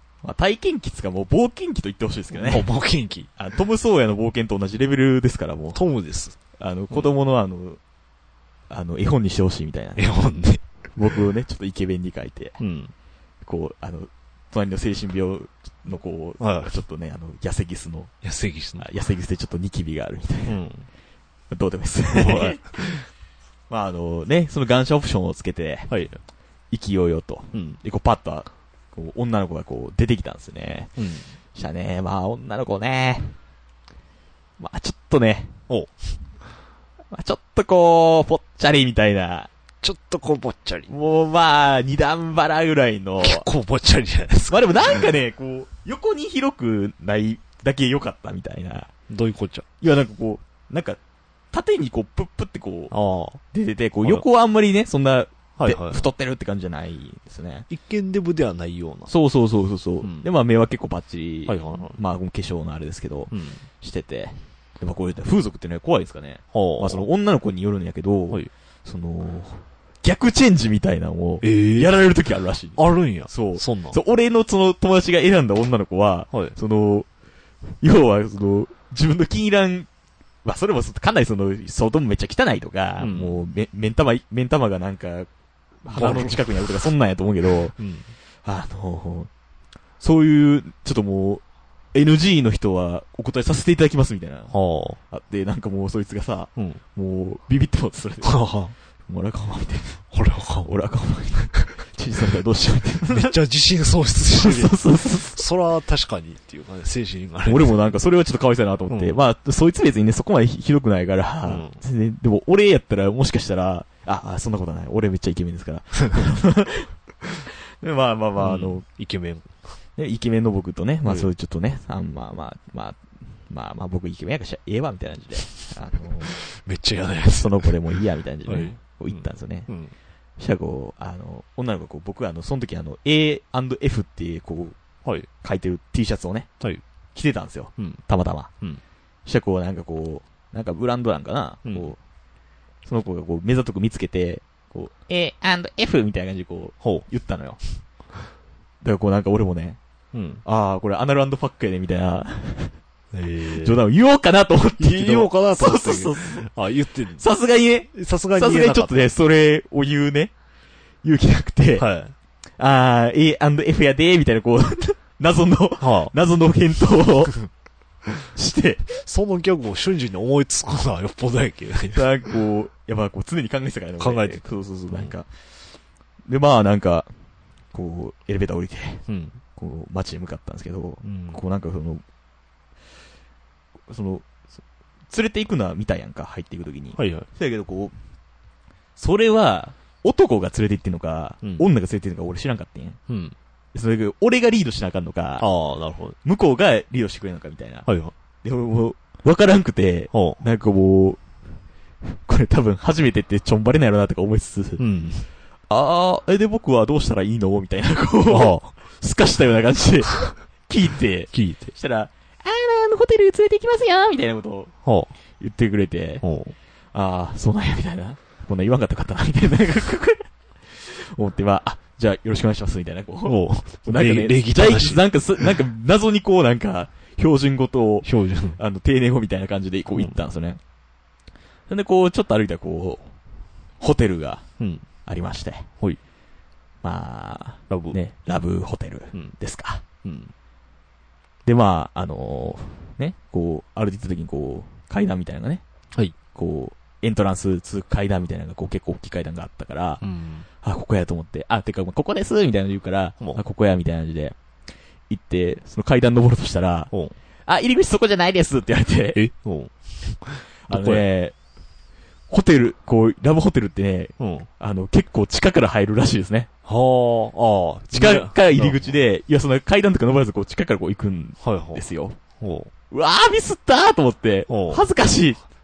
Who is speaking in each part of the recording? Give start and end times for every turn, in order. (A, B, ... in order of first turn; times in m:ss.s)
0:00.2-0:02.7 A
0:02.3-0:03.3 B
0:03.4-0:05.8 A
0:05.7-0:06.4 B
0:06.6-0:07.8 A
0:08.7-0:10.1 A
0:10.0-0:10.6 B
0:11.0-0:12.6 A
0:12.6-0:12.9 B
0:13.4-0:18.1 A
0:16.4-0:16.7 B
0:18.2-0:18.9 B
0:18.8-0:20.6 A
0:20.4-0:20.9 B
0:21.5-0:22.6 A
0:22.1-0:23.1 B
0:23.7-0:25.9 A
0:25.9-0:26.2 B
0:26.7-0:30.9 A
0:27.5-0:27.8 B
0:31.0-0:31.3 B
0:31.5-0:33.3 A
0:34.6-0:35.5 A
0:35.7-0:35.9 B
0:37.1-0:39.5 A
0:39.8-0:40.9 B
0:40.9-0:43.5 A
0:43.2-0:45.1 B
0:44.5-0:48.9 A
0:49.1-0:49.6 B
0:49.8-0:51.0 A
0:51.5-0:52.9 A
0:52.9-0:53.4 B
0:53.5-0:57.7 A
0:55.6-0:56.1 B
0:57.7-0:59.1 B
0:59.1-1:17.1 A
1:00.0-1:00.3 B
1:01.5-1:02.0 B
1:03.3-1:03.6 B
1:06.5-1:07.0 B
1:11.4-1:12.0 B
1:12.8-1:14.0 B
1:17.7-1:19.9 A
1:20.4-1:25.3 A
1:23.0-1:23.4 B
1:25.8-1:27.7 A
1:25.9-1:26.4 B
1:27.8-1:28.1 B
1:28.4-1:29.3 A
1:30.0-1:31.4 A
1:31.9-1:34.5 A
1:34.5-1:35.0 B
1:35.1-1:38.4 A
1:38.2-1:38.7 B
1:39.1-1:40.0 A
1:40.1-1:40.7 B
1:40.6-1:43.3 A
1:43.1-1:48.0 B
1:44.4-1:45.4 A
1:47.4-1:56.9 A
1:48.9-1:49.2 B
1:51.4-1:51.8 B
1:57.8-1:58.8 A
1:58.4-1:59.6 B
2:00.0-2:06.4 A
2:01.0-2:01.3 B
2:06.3-2:07.7 B
2:07.4-2:09.7 A
2:08.4-2:09.9 B
2:10.4-2:14.8 A
2:15.4-2:16.5 A
2:17.1-2:18.5 A
2:17.8-2:18.0 B
2:19.2-2:22.0 A
2:21.6-2:21.9 B
2:22.8-2:27.6 A
2:26.8-2:27.0 B
2:28.8-2:29.8 A
2:30.1-2:30.4 B
2:30.4-2:32.8 A
2:33.1-2:33.8 B
2:33.5-2:36.5 A
2:34.8-2:37.2 B
2:37.1-2:40.3 A
2:37.9-2:39.1 B
2:41.0-2:41.9 A
2:41.8-2:42.1 B
2:42.6-2:47.4 A
2:45.8-2:46.1 B
2:48.3-2:49.0 A
2:49.0-2:52.0 B
2:51.9-2:55.3 A
2:54.0-2:55.1 B
2:56.3-2:57.1 A
2:57.7-2:59.0 A
2:59.1-2:59.4 B
2:59.6-3:02.0 A
3:01.0-3:01.4 B
3:03.9-3:04.3 A
3:05.1-3:08.0 A
3:07.0-3:07.3 B
3:09.0-3:13.0 A
3:13.1-3:13.3 B
3:13.7-3:15.5 A
3:15.4-3:16.2 B
3:16.2-3:17.9 A
3:17.8-3:18.1 B
3:18.4-3:21.2 A
3:20.1-3:20.4 B
3:22.0-3:24.8 A
3:24.8-3:25.3 B
3:25.7-3:34.7 A
3:28.3-3:28.7 B
3:31.3-3:31.7 B
3:34.8-3:35.1 B
3:35.4-3:36.2 A
3:36.2-3:36.5 B
3:36.9-3:50.6 A
3:43.2-3:45.5 B
3:48.0-3:48.6 B
3:51.7-3:53.1 A
3:53.8-3:54.4 A
3:54.6-3:54.8 B
3:55.0-3:55.7 A
3:56.8-3:59.8 A
3:57.7-3:58.0 B
4:00.0-4:00.3 B
4:01.4-4:05.6 A
4:06.3-4:10.0 A
4:10.0-4:10.4 B
4:10.6-4:14.4 A
4:15.1-4:16.9 A
4:17.5-4:19.2 A
4:19.1-4:21.0 B
4:20.7-4:21.3 A
4:22.3-4:26.5 A
4:24.2-4:24.5 B
4:26.6-4:28.9 B
4:27.9-4:32.2 A
4:31.4-4:31.8 B
4:32.4-4:32.7 B
4:32.9-4:35.4 A
4:34.5-4:34.9 B